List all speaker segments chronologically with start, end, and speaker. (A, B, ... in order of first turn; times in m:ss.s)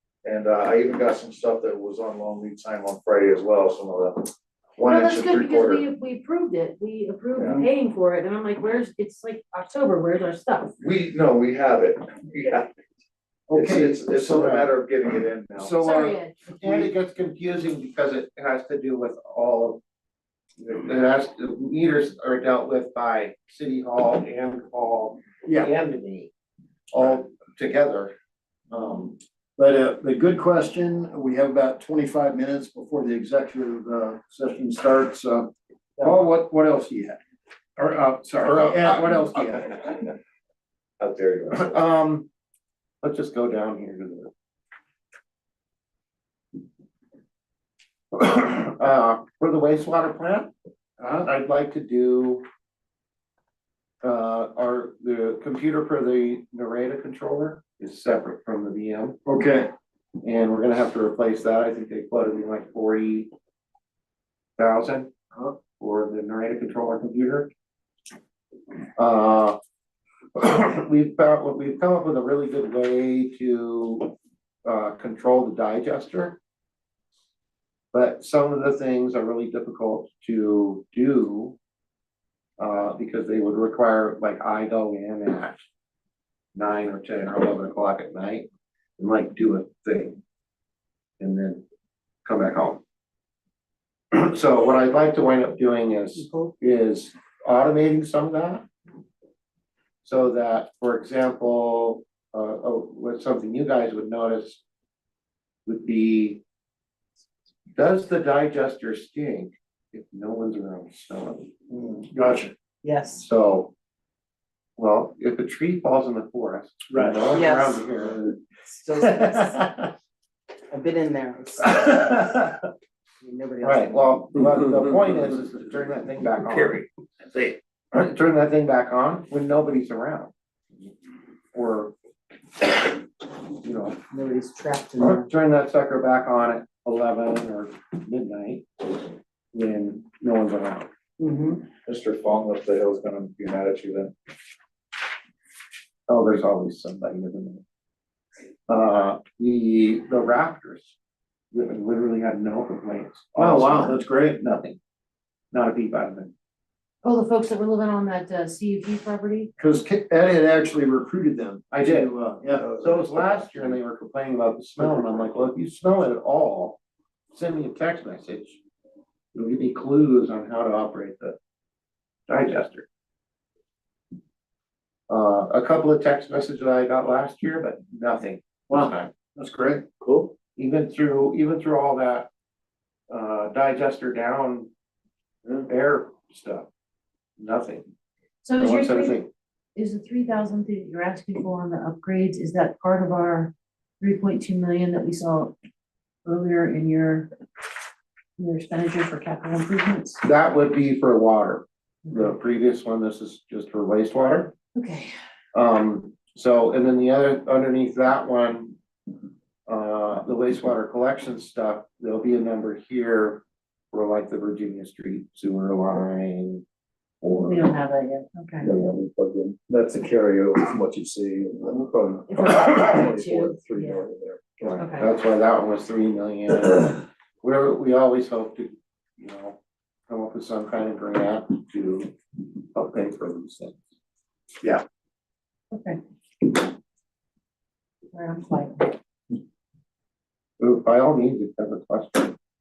0:00.2-0:05.8 A
0:04.8-0:10.8 B
0:07.4-0:07.6 A
0:10.8-0:12.7 A
0:13.5-0:14.6 C
0:13.5-0:15.8 A
0:15.6-0:16.9 C
0:15.8-0:16.3 B
0:16.6-0:19.8 D
0:20.6-0:26.3 D
0:25.4-0:25.7 C
0:26.9-0:28.1 D
0:28.7-0:29.2 D
0:29.6-0:37.2 C
0:37.8-0:40.0 C
0:38.4-0:39.4 D
0:41.0-0:41.7 A
0:41.5-0:42.3 D
0:43.0-0:44.3 D
0:48.1-0:50.5 D
0:51.0-0:51.2 C
0:51.1-0:52.4 D
0:54.0-0:59.2 D
0:59.2-0:59.7 C
1:00.2-1:03.3 D
1:04.6-1:05.1 D
1:05.6-1:07.5 D
1:09.0-1:09.6 D
1:10.3-1:14.1 D
1:14.6-1:16.4 D
1:17.9-1:21.6 D
1:22.6-1:25.6 D
1:26.5-1:28.5 D
1:29.0-1:30.2 D
1:31.2-1:31.6 D
1:32.2-1:32.8 D
1:34.1-1:38.6 D
1:40.0-1:44.6 D
1:45.6-1:46.4 D
1:47.8-1:51.5 D
1:51.7-1:52.5 C
1:52.8-1:53.3 E
1:53.2-1:53.7 D
1:54.8-1:58.3 D
1:56.9-1:57.3 C
1:57.3-1:59.7 E
1:59.2-1:59.9 D
2:00.7-2:02.4 E
2:01.6-2:02.5 D
2:03.2-2:04.3 E
2:03.6-2:10.3 D
2:11.5-2:11.9 D
2:13.6-2:14.0 D
2:14.1-2:15.3 E
2:15.0-2:18.7 D
2:19.5-2:20.9 D
2:21.2-2:21.7 E
2:21.8-2:24.1 A
2:26.1-2:27.6 D
2:28.7-2:30.9 D
2:31.5-2:34.8 D
2:33.4-2:34.4 C
2:35.5-2:36.3 D
2:37.0-2:39.5 B
2:39.6-2:42.7 C
2:41.7-2:42.1 D
2:42.8-2:46.8 D
2:47.3-2:48.6 D
2:49.3-2:51.4 D
2:52.3-2:52.9 D
2:55.1-2:59.1 D
2:58.7-2:59.8 C
3:00.0-3:00.3 A
3:00.6-3:02.3 D
3:03.1-3:04.7 D
3:05.6-3:06.7 D
3:07.4-3:07.8 D
3:08.4-3:09.2 B
3:08.6-3:09.3 D
3:09.8-3:15.5 B
3:16.2-3:17.3 B
3:18.4-3:20.2 B
3:20.2-3:24.5 D
3:24.7-3:25.1 B
3:25.5-3:28.8 D
3:29.7-3:36.6 D
3:37.2-3:37.6 D
3:37.3-3:38.7 B
3:38.6-3:44.6 A
3:42.3-3:44.0 B
3:44.6-3:52.1 D
3:44.7-3:45.1 B
3:52.7-3:53.8 D
3:55.7-3:56.0 B
3:58.1-3:59.0 B
4:00.6-4:02.4 D